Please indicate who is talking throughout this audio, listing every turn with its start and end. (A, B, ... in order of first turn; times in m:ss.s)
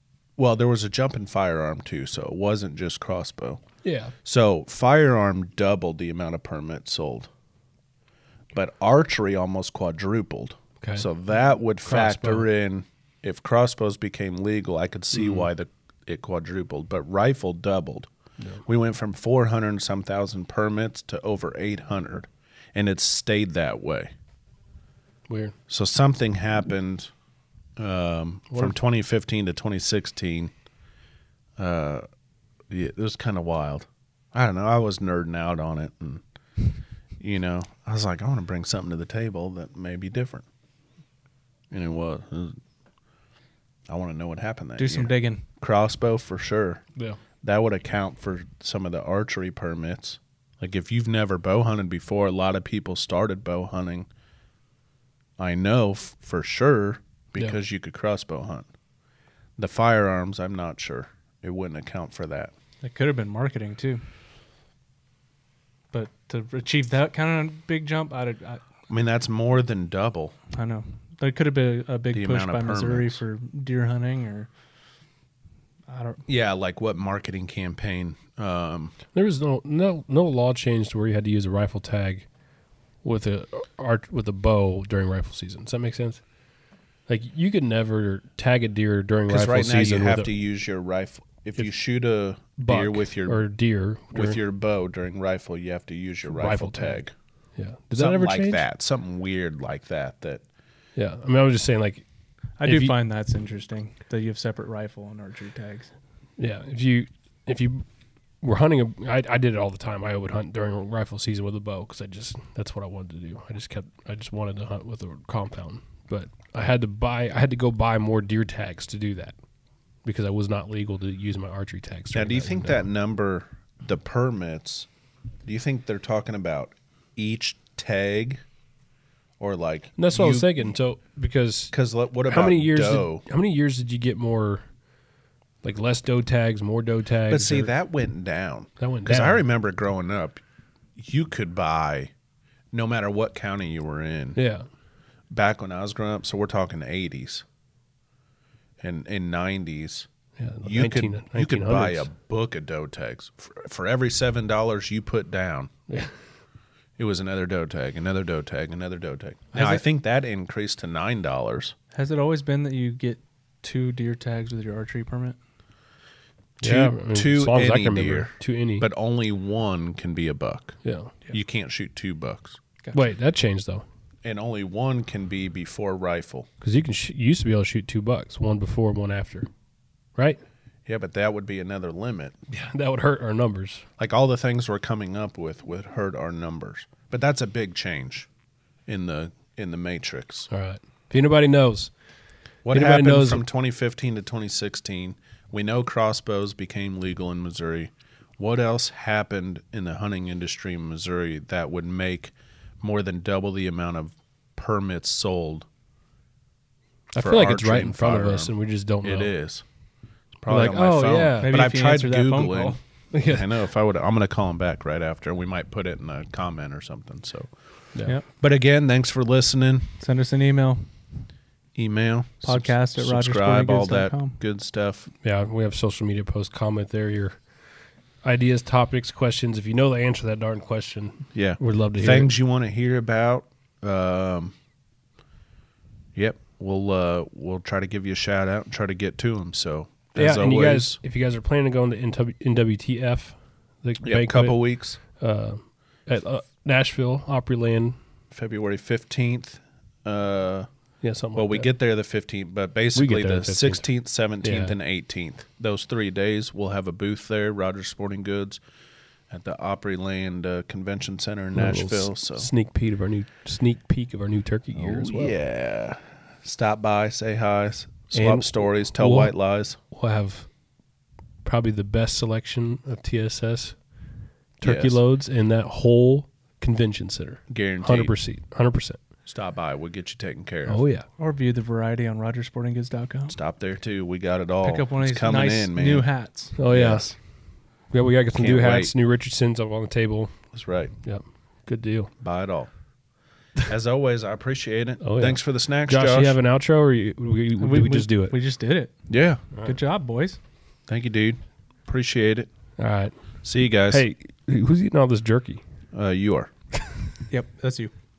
0:00.4-0:03.6 A
0:03.8-0:04.1 B
0:04.2-0:07.3 A
0:08.5-0:18.1 A
0:10.8-0:11.1 B
0:11.8-0:12.5 B
0:15.2-0:15.5 B
0:18.6-0:24.1 A
0:25.3-0:25.6 B
0:25.7-0:27.1 A
0:27.8-0:30.5 A
0:31.6-0:32.1 A
0:32.7-0:36.2 A
0:37.2-0:40.4 A
0:41.7-0:42.6 A
0:43.9-0:46.8 A
0:44.8-0:45.4 C
0:47.4-0:54.1 A
0:55.4-0:58.7 A
0:59.6-1:02.5 A
1:02.8-1:04.0 C
1:05.9-1:08.6 C
1:08.9-1:10.4 A
1:10.5-1:14.5 C
1:12.1-1:13.2 A
1:15.9-1:16.2 C
1:16.3-1:19.0 A
1:19.1-1:22.3 B
1:23.0-1:26.2 B
1:27.1-1:30.3 B
1:29.3-1:33.4 A
1:32.6-1:34.4 B
1:34.1-1:37.1 A
1:36.3-1:37.0 B
1:37.6-1:38.6 B
1:37.9-1:40.4 A
1:41.0-1:42.0 B
1:42.6-1:45.9 C
1:42.6-1:43.0 B
1:46.4-1:47.8 B
1:48.4-1:59.4 B
2:00.0-2:02.8 B
2:02.1-2:04.9 A
2:05.4-2:08.4 A
2:09.4-2:10.8 A
2:10.0-2:11.7 B
2:11.7-2:13.2 A
2:12.3-2:14.7 B
2:15.6-2:17.7 B
2:17.3-2:20.4 A
2:18.8-2:19.4 B
2:21.0-2:22.1 A
2:22.7-2:24.4 A
2:24.4-2:24.7 B
2:25.3-2:27.4 A
2:28.8-2:30.1 A
2:30.4-2:32.1 B
2:30.6-2:35.7 A
2:35.9-2:36.2 B
2:37.0-2:41.8 A
2:39.5-2:39.8 C
2:41.9-2:45.4 C
2:46.6-2:50.8 A
2:46.6-2:48.9 B
2:50.8-2:51.2 B
2:51.3-2:52.6 A
2:52.9-2:53.9 B
2:54.2-2:56.5 A
2:56.6-2:59.5 B
3:00.9-3:02.4 A
3:02.5-3:03.9 B
3:04.0-3:08.3 A
3:08.9-3:10.5 A
3:10.5-3:11.9 B
3:12.6-3:25.7 A
3:12.7-3:13.5 B
3:27.1-3:29.3 B
3:27.2-3:29.6 A
3:30.4-3:37.5 A
3:30.5-3:31.6 B
3:31.4-3:32.8 C
3:33.1-3:33.6 B
3:38.3-3:39.9 A
3:40.0-3:40.9 C
3:41.8-3:45.1 A
3:42.4-3:44.4 C
3:45.2-3:47.4 B
3:48.2-3:52.3 B
3:51.3-3:54.6 A
3:56.2-4:01.0 A
4:00.2-4:08.0 B
4:04.0-4:05.0 A
4:08.3-4:10.7 A
4:11.0-4:11.7 B
4:11.4-4:18.6 A
4:12.9-4:13.9 B
4:14.4-4:14.8 B
4:19.3-4:22.5 A
4:21.5-4:25.4 B
4:24.8-4:29.8 A
4:28.1-4:29.3 B
4:29.9-4:30.5 B
4:31.4-4:33.8 B
4:34.6-4:39.0 B
4:34.6-4:35.0 A
4:37.5-4:38.1 A
4:39.3-4:40.8 A
4:40.7-4:41.1 B
4:41.2-4:43.4 C
4:43.3-4:46.1 A
4:44.6-4:46.6 C
4:46.6-4:47.1 B
4:46.7-4:47.2 A
4:47.9-4:50.3 B
4:48.4-4:48.9 A
4:50.5-4:50.9 A
4:51.0-4:52.1 B
4:52.2-4:52.7 A
4:53.6-4:56.4 A
4:55.0-4:58.4 B
4:57.6-4:59.0 C
4:59.1-4:59.4 A
4:59.6-5:00.4 C
5:00.9-5:02.5 A
5:02.8-5:03.1 B
5:03.4-5:04.0 A
5:03.9-5:05.6 B
5:05.9-5:06.5 A
5:07.3-5:07.9 C